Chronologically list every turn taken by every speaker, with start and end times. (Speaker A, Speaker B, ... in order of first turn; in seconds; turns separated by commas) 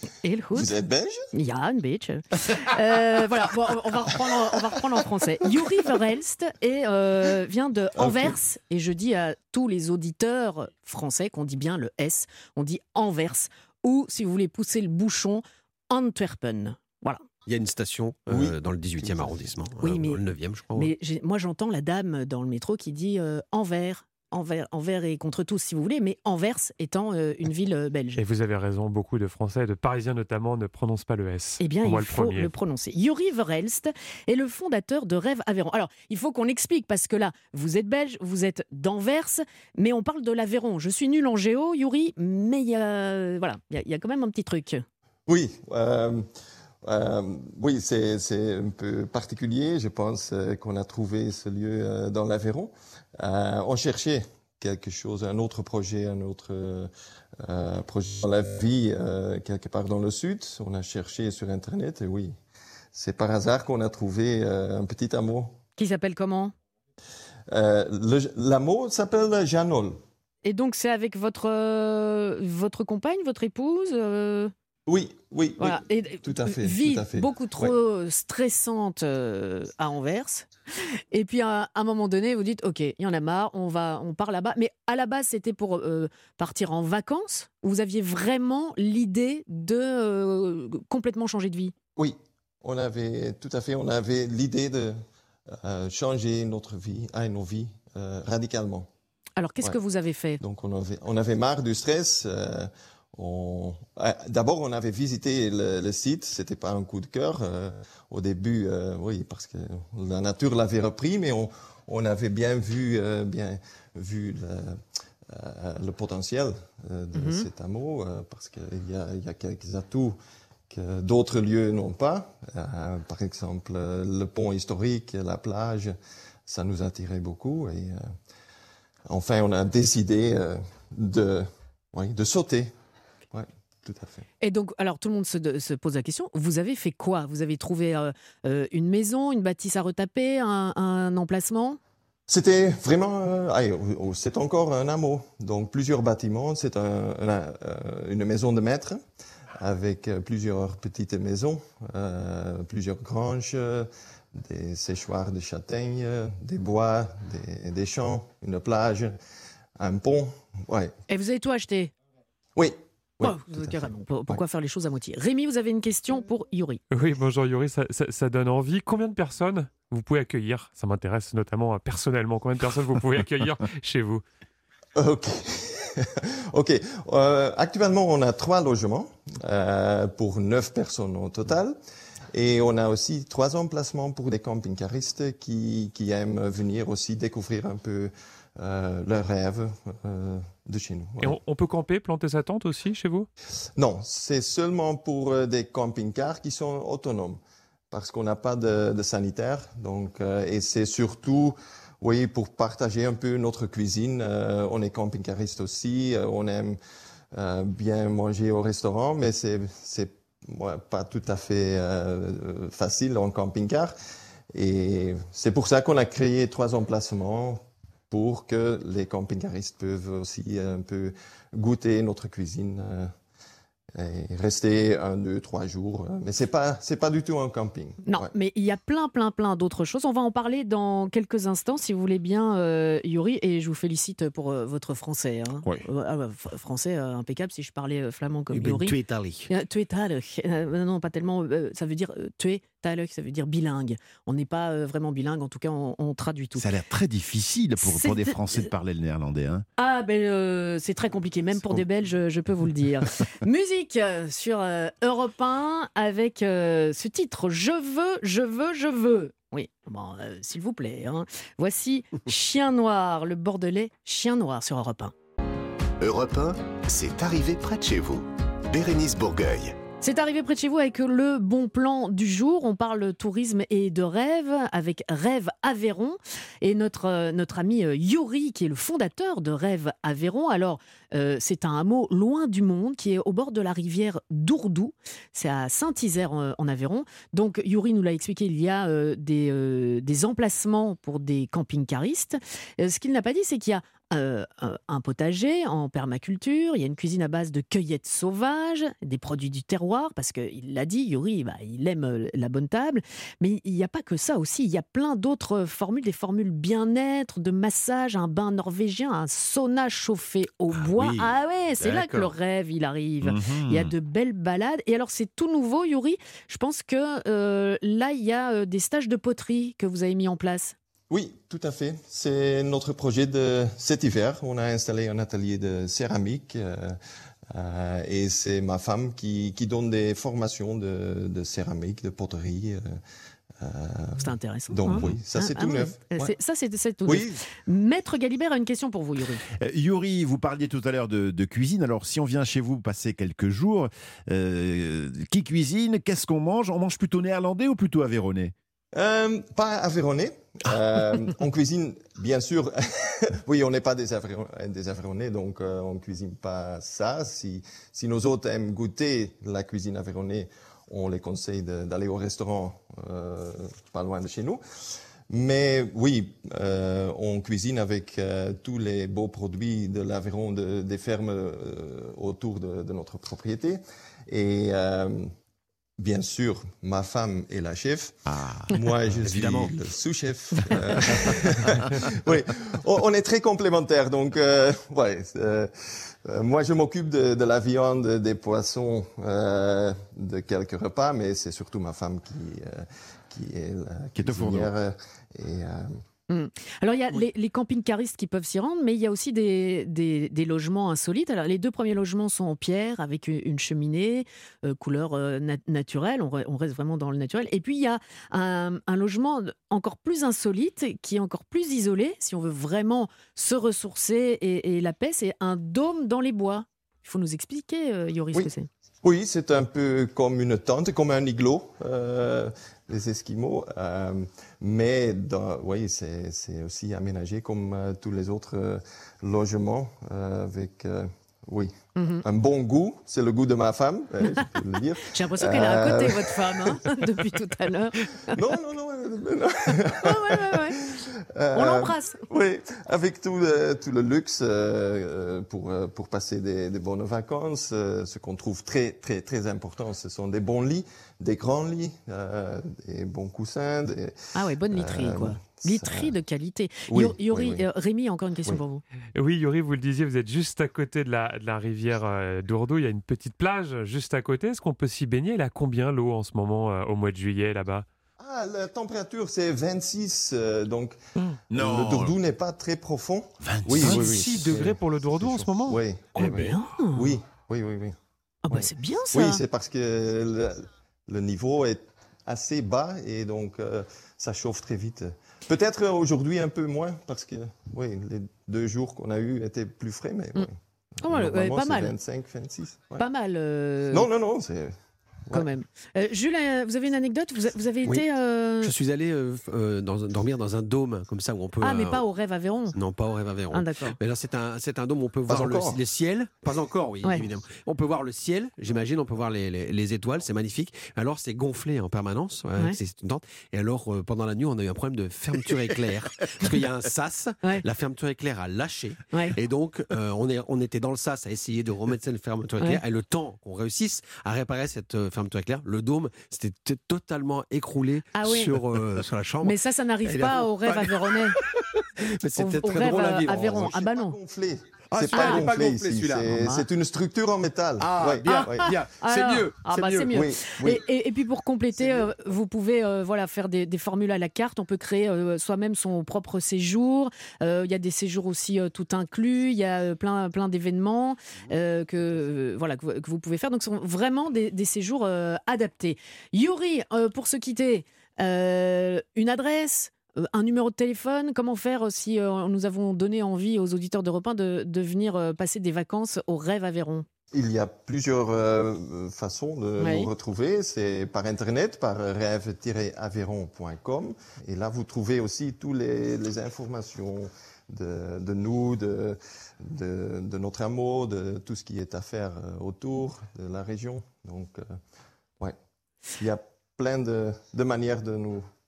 Speaker A: 0.2-0.7, Speaker B: 0.5-1.2, Speaker A: 1.3-17.2, Speaker B: 8.0-8.4, Speaker C: 17.5-20.9, Speaker A: 19.8-20.2, Speaker A: 20.7-28.2, Speaker D: 28.1-32.5, Speaker A: 31.6-44.8, Speaker B: 45.3-46.2, Speaker B: 46.8-56.9, Speaker B: 57.4-62.3, Speaker B: 62.9-65.6, Speaker A: 65.8-66.5, Speaker B: 67.5-70.0, Speaker A: 70.4-74.5, Speaker B: 74.9-77.7, Speaker A: 75.6-80.5, Speaker A: 81.1-91.7, Speaker B: 92.0-95.0, Speaker B: 95.5-98.9, Speaker A: 99.4-100.4, Speaker B: 100.4-120.1, Speaker A: 117.1-117.5, Speaker B: 120.7-125.9, Speaker B: 126.5-128.0, Speaker B: 129.1-132.7, Speaker B: 133.3-134.2, Speaker A: 134.4-141.8, Speaker B: 142.3-149.0, Speaker B: 149.6-159.1, Speaker B: 159.8-160.9, Speaker A: 161.1-161.9, Speaker B: 162.6-164.4, Speaker A: 163.2-166.8, Speaker D: 166.9-174.2, Speaker B: 175.0-181.7, Speaker B: 182.3-191.4, Speaker D: 191.2-193.3, Speaker B: 193.8-197.4, Speaker B: 197.9-206.8, Speaker B: 207.3-213.9, Speaker B: 214.5-223.1, Speaker B: 224.0-228.3, Speaker A: 228.0-239.0, Speaker C: 238.5-239.5, Speaker A: 239.5-246.7, Speaker E: 246.6-249.6, Speaker A: 247.8-248.7, Speaker A: 249.8-265.1, Speaker F: 266.0-269.8, Speaker A: 270.0-320.7, Speaker C: 310.7-312.3, Speaker E: 313.2-313.9, Speaker B: 321.1-327.0, Speaker B: 327.5-333.0, Speaker B: 333.6-336.4, Speaker A: 334.2-339.4, Speaker B: 337.0-337.4, Speaker E: 339.5-348.5, Speaker B: 348.9-364.6, Speaker B: 365.3-375.3, Speaker B: 376.0-385.7, Speaker E: 378.3-378.8, Speaker E: 379.3-379.7, Speaker C: 379.3-379.7, Speaker A: 380.5-381.4, Speaker B: 386.3-395.9, Speaker E: 394.1-394.7, Speaker A: 396.3-418.7, Speaker B: 419.0-431.7, Speaker A: 432.0-432.2, Speaker B: 432.2-437.1, Speaker A: 435.1-438.4, Speaker B: 438.3-454.1, Speaker A: 440.0-440.9, Speaker A: 441.5-442.2, Speaker A: 454.3-458.8, Speaker B: 454.7-456.1, Speaker B: 456.9-457.6, Speaker D: 459.1-467.9, Speaker B: 468.2-471.0, Speaker E: 471.5-472.1, Speaker B: 471.5-477.9, Speaker E: 473.4-474.5, Speaker D: 473.8-475.8, Speaker A: 476.1-477.2, Speaker C: 476.2-476.5, Speaker A: 478.4-479.4, Speaker B: 478.5-490.5, Speaker A: 491.0-491.9, Speaker B: 491.0-493.1, Speaker A: 493.0-494.1, Speaker B: 493.9-494.7, Speaker A: 495.3-498.7, Speaker C: 498.6-502.0, Speaker A: 501.6-502.8, Speaker C: 502.7-533.7, Speaker A: 503.5-504.0, Speaker B: 505.3-505.8, Speaker A: 528.1-528.6, Speaker A: 529.4-531.4, Speaker A: 532.4-534.1, Speaker B: 533.6-538.7, Speaker C: 534.9-536.3, Speaker A: 535.1-535.5, Speaker A: 536.3-536.6, Speaker C: 537.8-540.8, Speaker A: 538.2-567.0, Speaker B: 540.1-540.6, Speaker B: 567.3-584.8, Speaker A: 569.8-570.1, Speaker B: 586.2-588.4